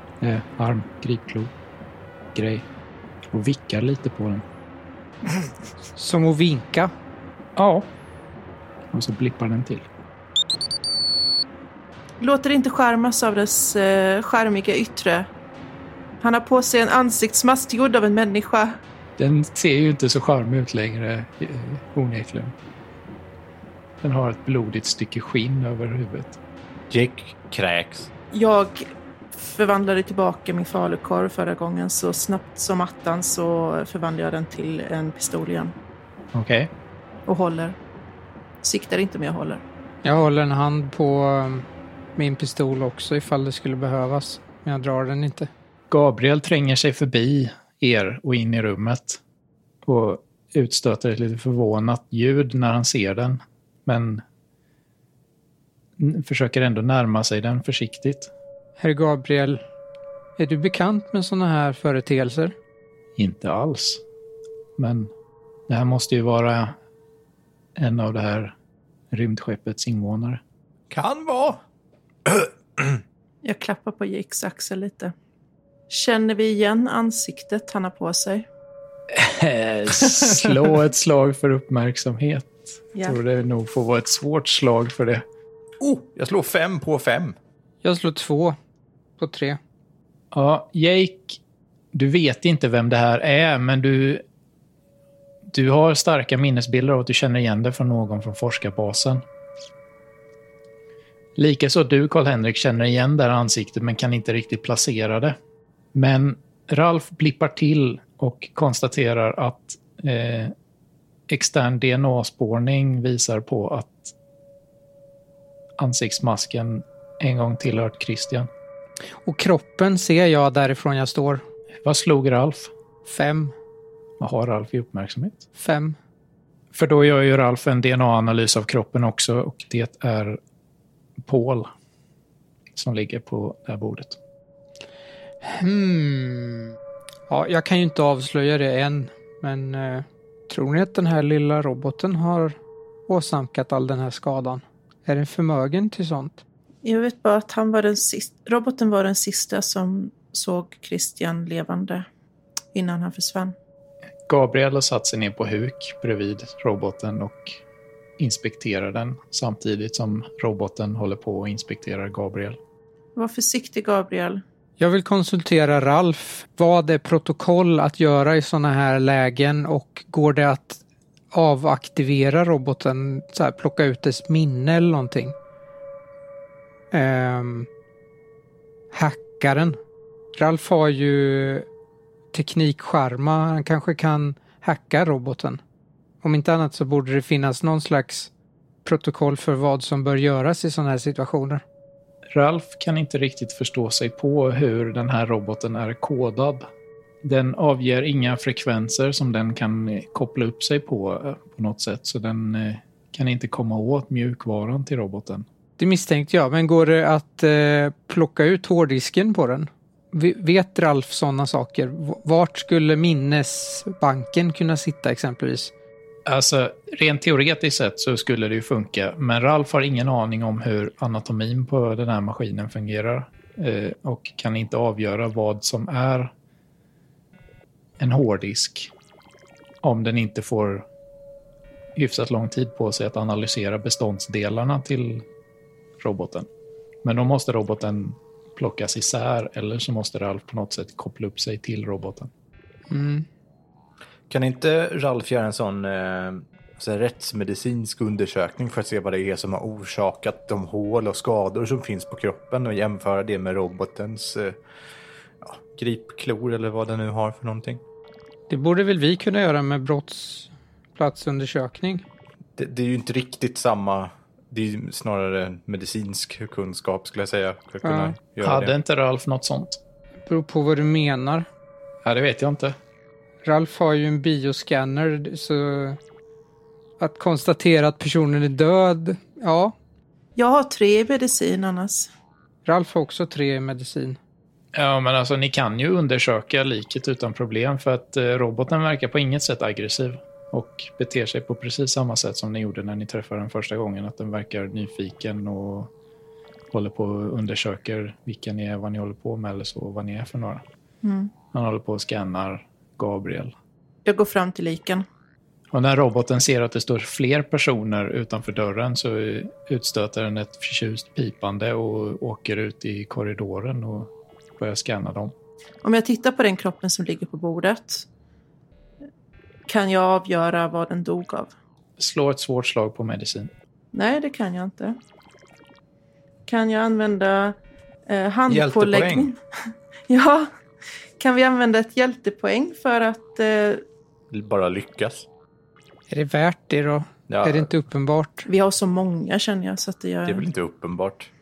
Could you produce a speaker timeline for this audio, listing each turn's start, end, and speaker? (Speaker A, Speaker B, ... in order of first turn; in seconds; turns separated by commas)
Speaker A: 0.2-1.5, Speaker A: 2.3-2.7, Speaker A: 3.3-4.4, Speaker B: 6.0-6.9, Speaker A: 7.6-7.9, Speaker A: 8.9-9.9, Speaker C: 12.2-15.3, Speaker C: 16.2-18.8, Speaker A: 19.2-22.5, Speaker A: 24.0-26.4, Speaker D: 26.9-28.1, Speaker C: 28.3-35.7, Speaker A: 36.3-36.7, Speaker C: 37.3-37.8, Speaker C: 38.6-39.6, Speaker B: 40.0-41.6, Speaker B: 42.2-45.5, Speaker A: 45.9-49.2, Speaker A: 49.8-54.2, Speaker A: 56.0-58.3, Speaker B: 58.8-59.6, Speaker B: 60.4-62.5, Speaker A: 63.2-64.0, Speaker A: 64.8-65.1, Speaker A: 65.7-66.8, Speaker A: 67.8-68.5, Speaker A: 69.1-70.4, Speaker D: 70.9-71.6, Speaker D: 72.3-73.0, Speaker C: 73.4-75.1, Speaker C: 75.9-78.5, Speaker A: 79.1-85.2, Speaker D: 85.8-87.4, Speaker B: 87.8-88.6, Speaker B: 89.2-89.6, Speaker A: 90.3-91.4, Speaker A: 91.9-94.2, Speaker A: 95.5-99.2, Speaker A: 101.4-105.3, Speaker A: 106.0-110.5, Speaker A: 111.3-114.2, Speaker A: 115.8-118.5, Speaker B: 119.2-121.4, Speaker A: 121.8-122.7, Speaker B: 123.1-123.5, Speaker A: 124.2-125.4, Speaker B: 125.6-126.0, Speaker A: 126.7-130.4, Speaker A: 131.2-131.7, Speaker A: 132.8-134.2, Speaker B: 135.4-136.8, Speaker B: 137.3-142.6, Speaker B: 143.1-146.4, Speaker C: 146.8-152.1, Speaker C: 152.7-153.6, Speaker A: 154.3-157.6, Speaker A: 158.2-162.6, Speaker C: 163.2-164.4, Speaker B: 164.8-170.8, Speaker B: 171.3-175.3, Speaker B: 176.9-177.7, Speaker B: 178.9-179.8, Speaker B: 180.3-181.7, Speaker B: 182.3-185.6, Speaker B: 186.2-188.3, Speaker B: 188.8-191.6, Speaker A: 192.3-196.7, Speaker A: 197.2-205.4, Speaker B: 205.8-215.7, Speaker A: 216.3-226.3, Speaker A: 228.0-228.9, Speaker A: 229.8-230.9, Speaker A: 231.9-235.2, Speaker A: 236.0-236.5, Speaker A: 237.0-242.3, Speaker B: 242.9-243.3, Speaker D: 244.3-254.6, Speaker D: 255.4-257.8, Speaker B: 258.5-262.1, Speaker D: 262.6-268.7, Speaker B: 267.8-268.1, Speaker A: 268.4-269.8, Speaker B: 270.3-271.5, Speaker A: 272.0-272.8, Speaker B: 273.4-276.0, Speaker B: 277.0-279.7, Speaker C: 280.4-282.1, Speaker B: 282.6-284.2, Speaker A: 284.7-295.9, Speaker A: 296.7-300.6, Speaker C: 301.0-301.3, Speaker A: 301.5-303.5, Speaker C: 304.1-305.1, Speaker A: 305.7-315.3, Speaker C: 315.8-318.1, Speaker C: 319.7-321.5, Speaker A: 322.0-323.5, Speaker C: 323.9-325.0, Speaker C: 326.5-329.4, Speaker D: 328.5-329.3, Speaker C: 330.1-330.5, Speaker C: 331.2-333.8, Speaker D: 334.3-335.3, Speaker B: 336.1-338.5, Speaker D: 337.3-337.7, Speaker C: 338.5-340.5, Speaker D: 340.2-341.3